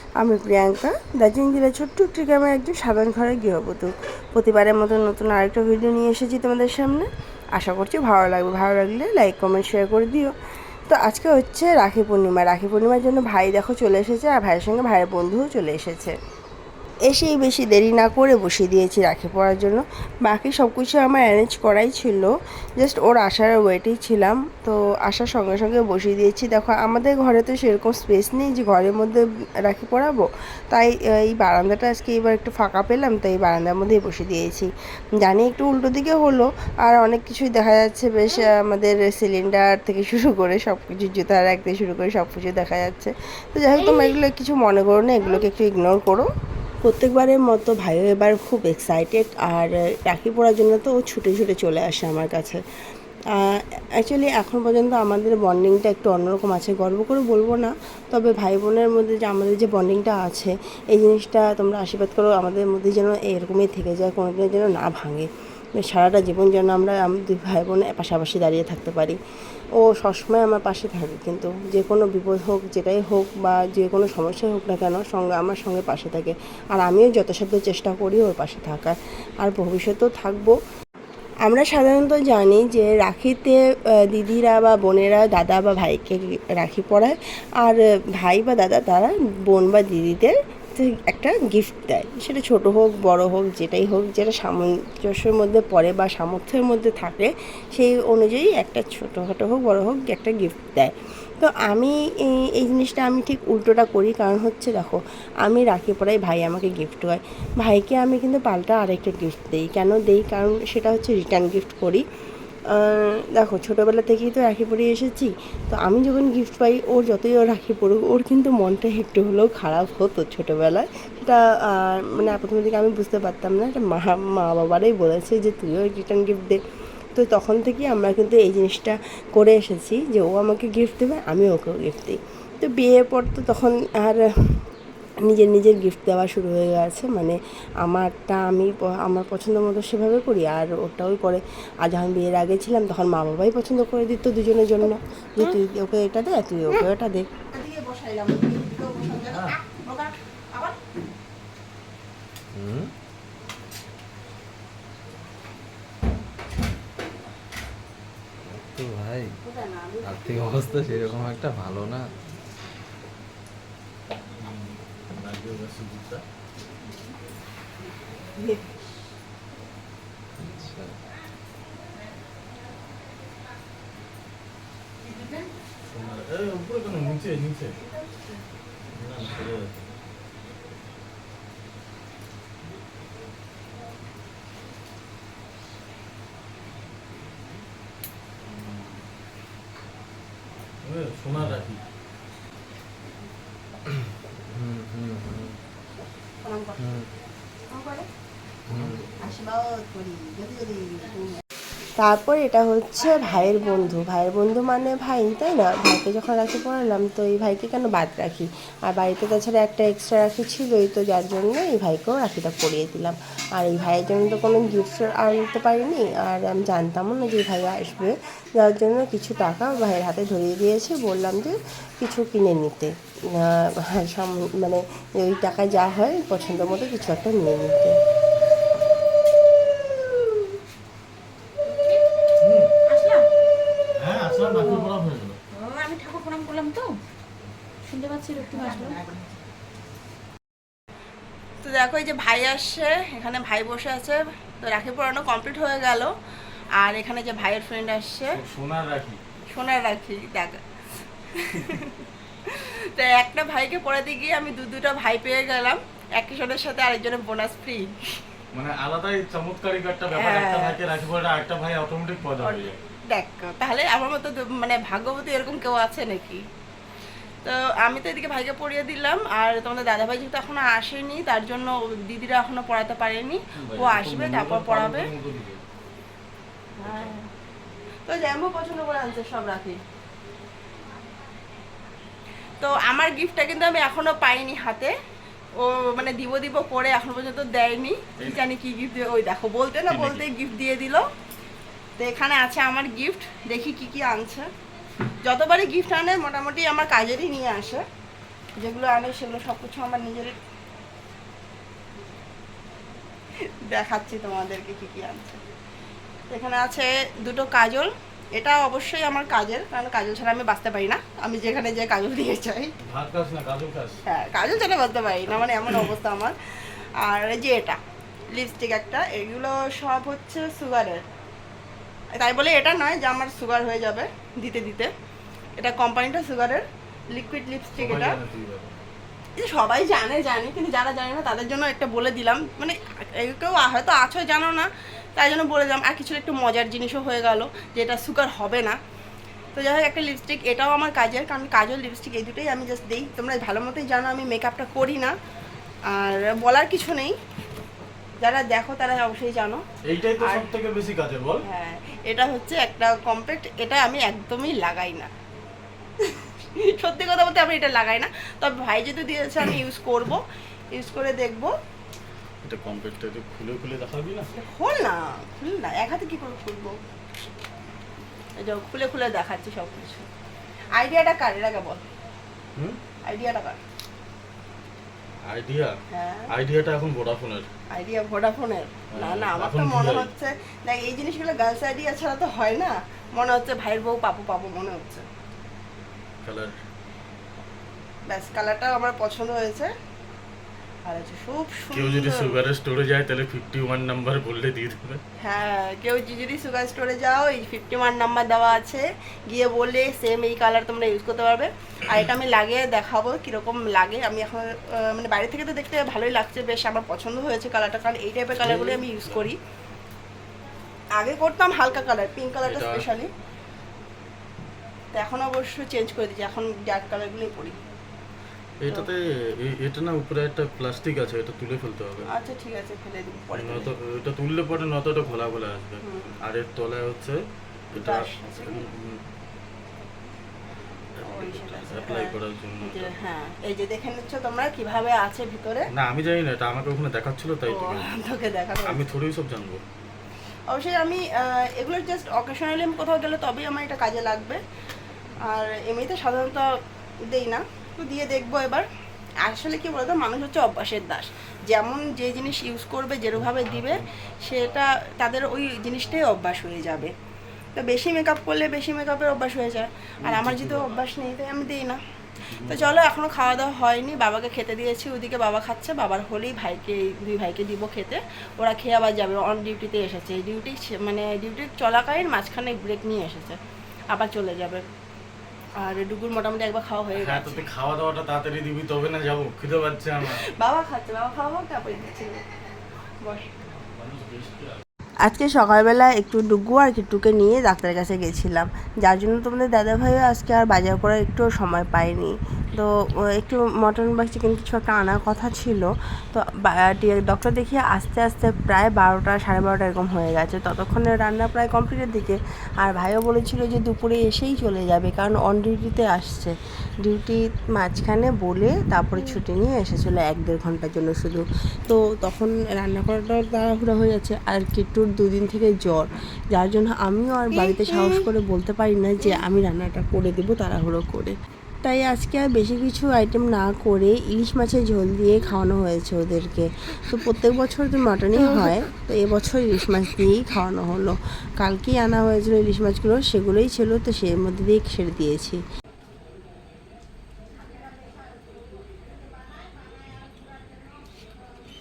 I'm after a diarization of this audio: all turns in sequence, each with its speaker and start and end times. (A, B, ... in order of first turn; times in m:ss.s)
0:00.2-0:10.3 A
0:10.9-0:16.2 A
0:17.0-0:34.7 A
0:35.2-0:46.3 A
0:46.8-0:52.6 A
0:53.4-1:05.3 A
1:05.8-1:09.2 A
1:09.8-1:20.6 A
1:21.4-1:23.6 A
1:24.1-1:52.0 A
1:52.8-2:06.6 A
2:07.1-2:14.6 A
2:15.2-2:30.8 A
2:32.6-2:32.9 B
2:38.4-2:39.4 B
2:39.4-2:41.1 A
2:40.0-2:42.1 B
2:44.4-2:46.2 C
2:50.4-2:51.0 B
2:55.9-2:57.8 C
2:58.9-2:59.8 C
3:08.4-3:09.0 C
3:10.8-3:11.8 C
3:11.4-3:11.6 B
3:13.9-3:15.6 B
3:16.4-3:16.8 A
3:16.8-3:17.1 B
3:17.7-3:18.1 A
3:18.7-3:19.0 B
3:19.2-3:21.4 A
3:22.0-3:48.0 A
3:51.7-3:52.0 D
3:52.4-3:52.7 C
3:52.9-3:53.2 D
3:54.0-3:55.4 C
3:54.6-3:54.9 D
3:55.6-3:57.0 D
3:57.9-3:59.2 D
4:01.6-4:06.1 A
4:06.8-4:08.4 A
4:08.3-4:09.2 C
4:09.5-4:10.6 A
4:11.3-4:18.1 A
4:18.5-4:22.8 C
4:20.1-4:20.8 A
4:22.4-4:26.4 A
4:27.4-4:35.1 A
4:33.6-4:35.6 C
4:36.8-4:37.3 A
4:36.9-4:37.1 C
4:38.1-4:39.8 A
4:42.6-4:44.9 A
4:45.6-4:51.0 A
4:49.9-4:50.2 C
4:52.0-4:54.5 A
4:55.2-4:57.8 A
4:58.6-5:00.4 A
5:03.6-5:05.4 A
5:06.3-5:12.7 A
5:12.9-5:14.0 C
5:14.1-5:17.8 A
5:18.3-5:21.0 A
5:22.2-5:24.9 A
5:25.6-5:28.2 A
5:27.8-5:28.7 C
5:29.4-5:38.8 A
5:39.5-5:45.1 A
5:45.9-5:47.1 A
5:48.2-5:49.6 A
5:49.9-5:51.4 C
5:50.2-5:50.5 A
5:51.4-5:55.1 A
5:56.0-6:00.2 A
6:00.8-6:01.5 A
6:02.4-6:04.3 C
6:04.4-6:06.8 A
6:08.4-6:10.1 A
6:10.8-6:11.8 A
6:13.1-6:13.6 A
6:15.3-6:15.7 C
6:15.9-6:16.3 A
6:16.3-6:17.5 C
6:17.7-6:25.0 A
6:18.9-6:20.1 C
6:26.2-6:26.6 C
6:28.1-6:29.7 A
6:30.8-6:32.4 A
6:31.7-6:35.0 C
6:35.2-6:49.4 A
6:48.4-6:49.3 C
6:51.0-6:53.1 A
6:52.4-6:52.9 C
6:54.9-6:57.6 A
6:58.6-7:02.1 C
7:02.1-7:03.7 A
7:03.3-7:07.2 C
7:05.8-7:06.2 A
7:07.7-7:09.0 C
7:07.8-7:08.6 A
7:11.0-7:12.9 C
7:11.0-7:15.7 A
7:15.7-7:17.9 C
7:17.5-7:18.8 A
7:18.6-7:19.6 C
7:20.5-7:24.4 A
7:25.2-7:26.5 A
7:27.1-7:28.6 A
7:29.2-7:36.9 A
7:33.1-7:34.6 C
7:37.6-7:41.8 A
7:40.0-7:40.8 C
7:42.2-7:42.9 C
7:42.4-7:53.4 A
7:53.9-7:54.6 A
7:55.6-7:57.4 A
7:56.9-8:00.2 C
8:00.0-8:02.2 A
8:03.0-8:03.3 A
8:03.8-8:04.6 C
8:05.0-8:55.4 A
8:37.4-8:37.9 D